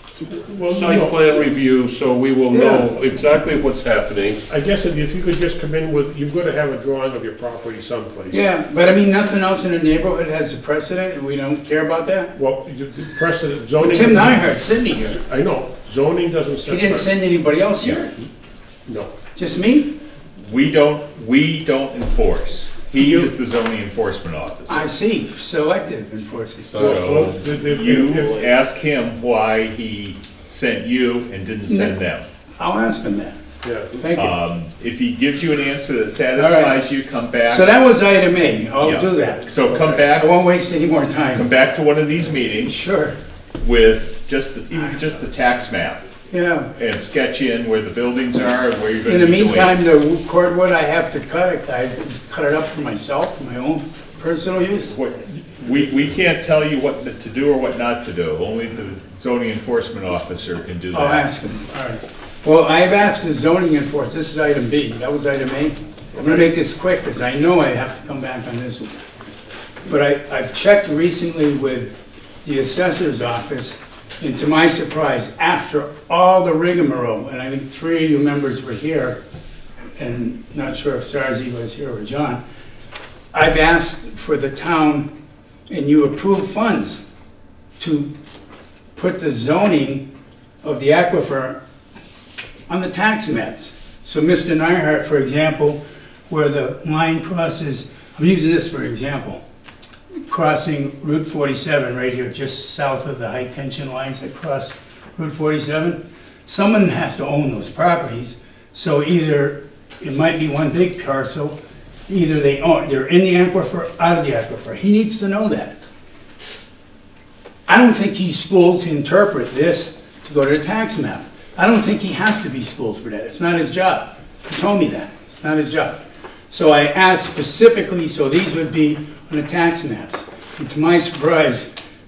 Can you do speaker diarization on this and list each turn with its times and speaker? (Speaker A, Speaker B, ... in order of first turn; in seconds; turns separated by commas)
Speaker A: 0.1-1.5, Speaker B: 0.6-4.4, Speaker C: 2.5-2.8, Speaker A: 4.5-8.4, Speaker C: 8.3-12.3, Speaker A: 12.3-17.1, Speaker C: 13.8-15.2, Speaker C: 16.6-18.2, Speaker A: 18.9-19.1, Speaker C: 19.3-19.9, Speaker D: 20.4-24.9, Speaker C: 22.9-23.3, Speaker C: 24.7-27.1, Speaker B: 26.7-27.4, Speaker A: 26.7-28.6, Speaker D: 26.8-32.2, Speaker C: 31.7-32.0, Speaker C: 32.6-33.4, Speaker C: 34.0-34.4, Speaker D: 34.1-37.7, Speaker C: 36.3-36.8, Speaker C: 37.5-41.5, Speaker D: 38.8-40.3, Speaker D: 41.3-42.9, Speaker C: 42.6-43.1, Speaker D: 43.6-46.0, Speaker C: 46.3-46.7, Speaker D: 46.8-49.7, Speaker C: 49.0-55.0, Speaker D: 54.9-61.3, Speaker C: 60.9-69.0, Speaker C: 69.8-71.9, Speaker C: 72.4-79.2, Speaker C: 80.0-82.4, Speaker C: 83.3-85.1, Speaker C: 85.7-87.0, Speaker C: 87.8-88.1, Speaker C: 88.9-90.0, Speaker C: 90.6-91.6, Speaker C: 92.7-99.4, Speaker C: 100.2-111.5, Speaker C: 112.1-115.8, Speaker C: 117.7-131.7